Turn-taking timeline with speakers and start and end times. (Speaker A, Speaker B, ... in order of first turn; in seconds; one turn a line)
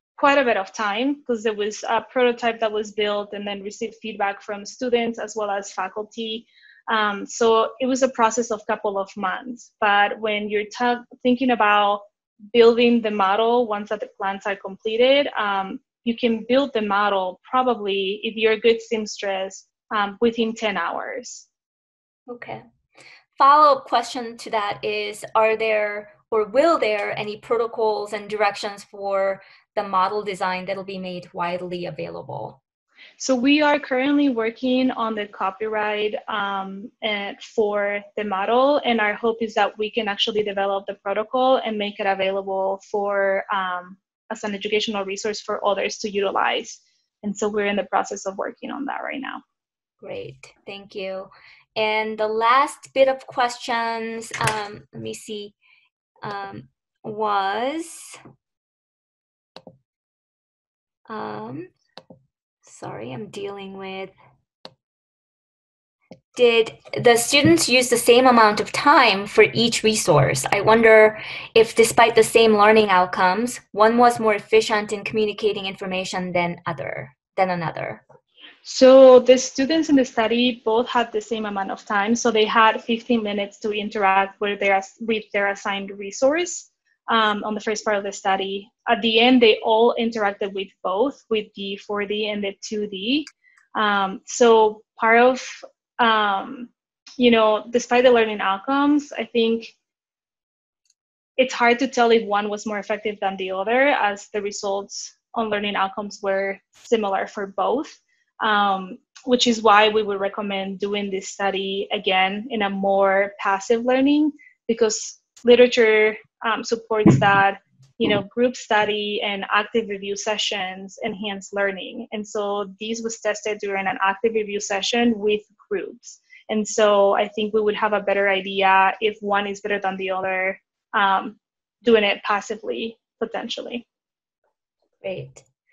Speaker A: 0.2-21.5
Speaker B: 22.3-22.6
Speaker B: 23.4-32.6
Speaker A: 33.2-49.4
Speaker B: 50.0-55.5
Speaker B: 56.2-58.2
Speaker B: 61.1-61.7
Speaker B: 62.6-64.1
Speaker B: 66.3-78.0
Speaker A: 78.6-99.7
Speaker A: 101.4-133.8
Speaker B: 135.0-135.4